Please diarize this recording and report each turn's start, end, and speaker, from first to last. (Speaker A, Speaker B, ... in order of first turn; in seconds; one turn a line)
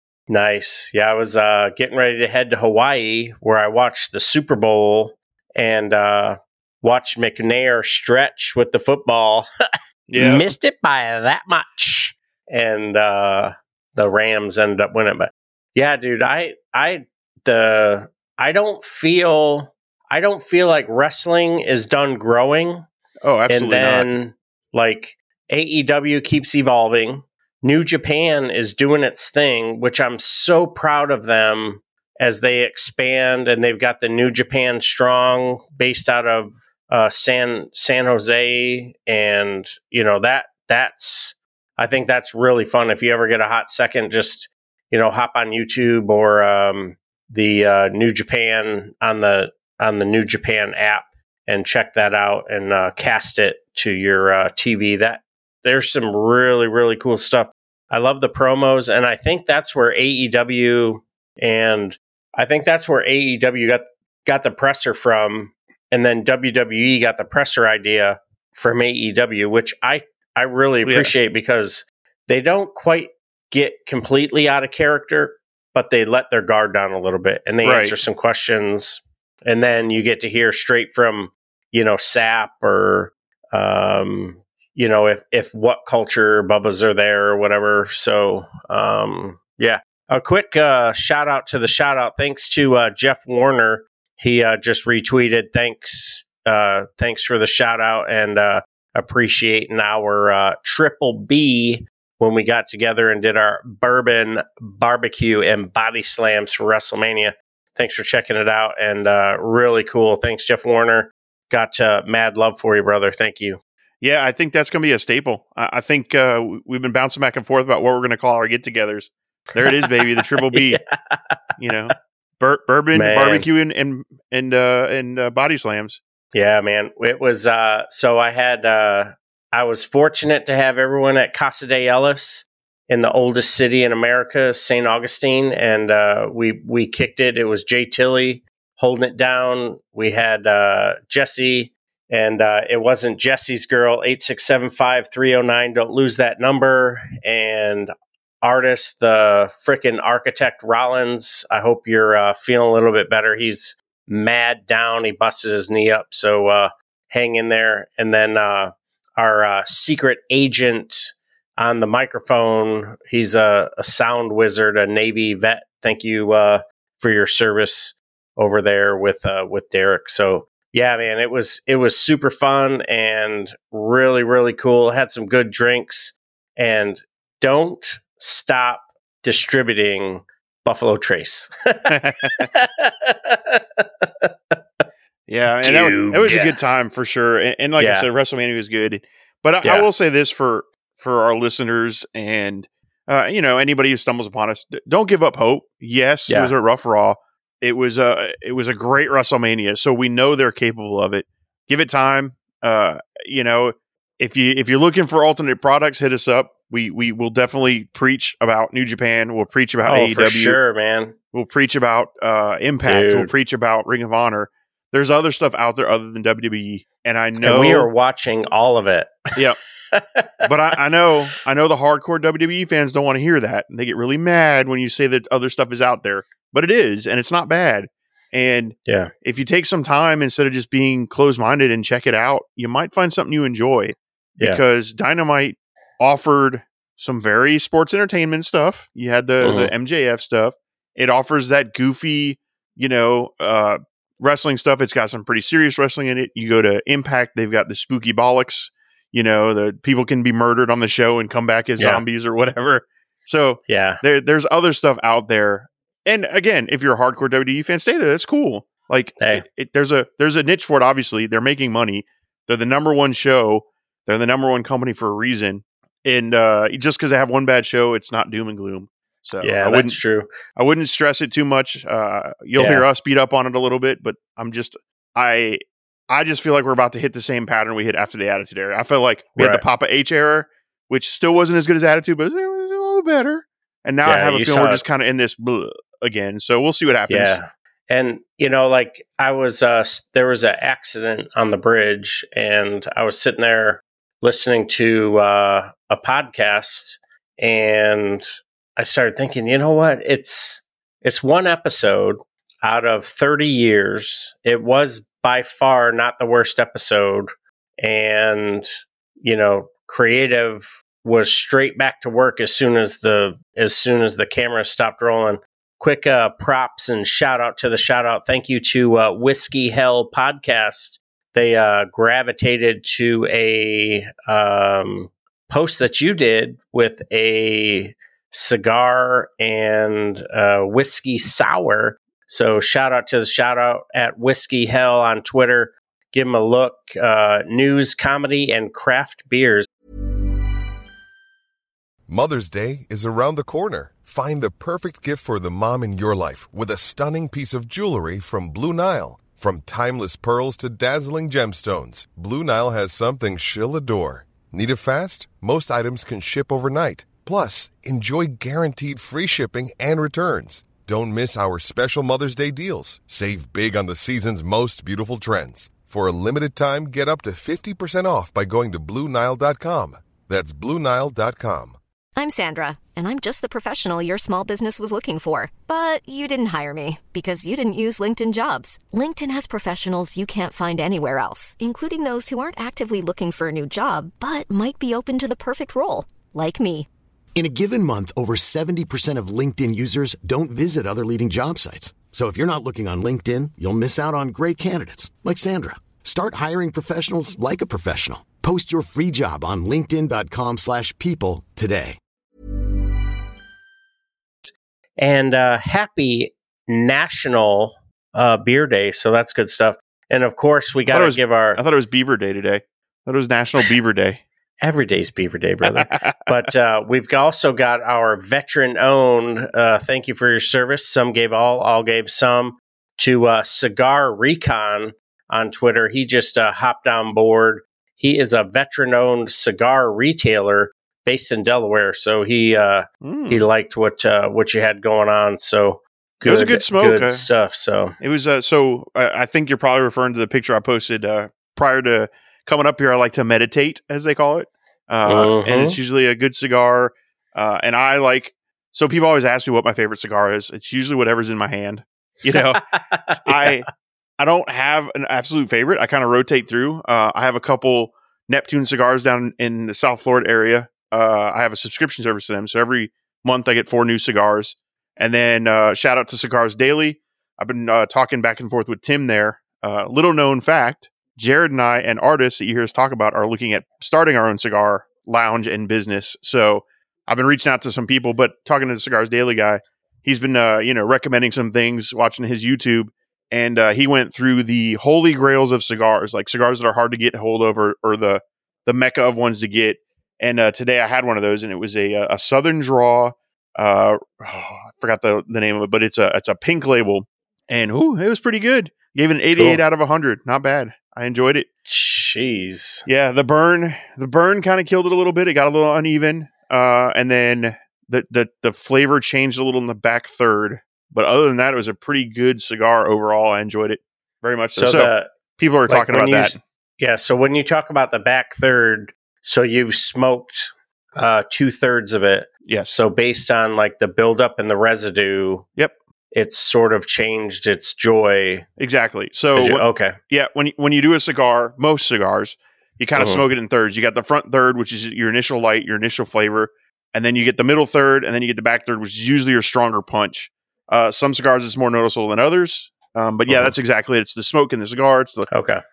Speaker A: 0.3-9.5
Speaker B: 10.1-10.5
Speaker A: 10.2-22.9
Speaker B: 23.2-24.1
Speaker A: 23.5-113.6
Speaker B: 70.9-71.1
Speaker B: 77.6-78.0
Speaker B: 114.0-120.8
Speaker A: 120.5-121.2
Speaker B: 121.6-126.0
Speaker A: 122.9-123.5
Speaker A: 126.3-184.3
Speaker B: 181.9-182.5
Speaker B: 185.3-210.6
Speaker A: 185.6-186.5
Speaker A: 187.8-188.1
Speaker A: 196.3-196.5
Speaker A: 209.8-211.2
Speaker B: 211.3-217.9
Speaker A: 212.8-213.3
Speaker A: 217.4-219.3
Speaker A: 219.9-220.4
Speaker B: 220.4-270.0
Speaker A: 228.9-229.1
Speaker A: 239.4-239.7
Speaker A: 251.8-252.0
Speaker A: 253.7-254.0
Speaker A: 269.4-270.3
Speaker B: 270.6-287.4
Speaker A: 272.6-272.9
Speaker A: 279.4-279.6
Speaker A: 284.0-284.8
Speaker A: 287.1-339.7
Speaker C: 342.1-371.8
Speaker D: 372.2-386.9
Speaker E: 387.4-402.0
Speaker A: 404.4-411.6
Speaker B: 410.9-414.2
Speaker A: 414.6-438.0
Speaker B: 415.7-416.1
Speaker B: 433.0-433.4
Speaker B: 436.2-437.3
Speaker B: 438.0-452.6
Speaker A: 445.1-445.8
Speaker A: 452.4-453.6
Speaker B: 453.1-453.7
Speaker B: 454.2-501.5
Speaker A: 499.4-499.6
Speaker A: 501.7-502.9
Speaker B: 502.9-516.4
Speaker A: 514.6-515.1
Speaker A: 515.7-525.5
Speaker B: 522.5-522.7
Speaker A: 526.1-528.5
Speaker B: 528.6-545.3
Speaker A: 529.4-530.0
Speaker A: 533.0-533.2
Speaker A: 543.3-543.5
Speaker A: 545.3-545.6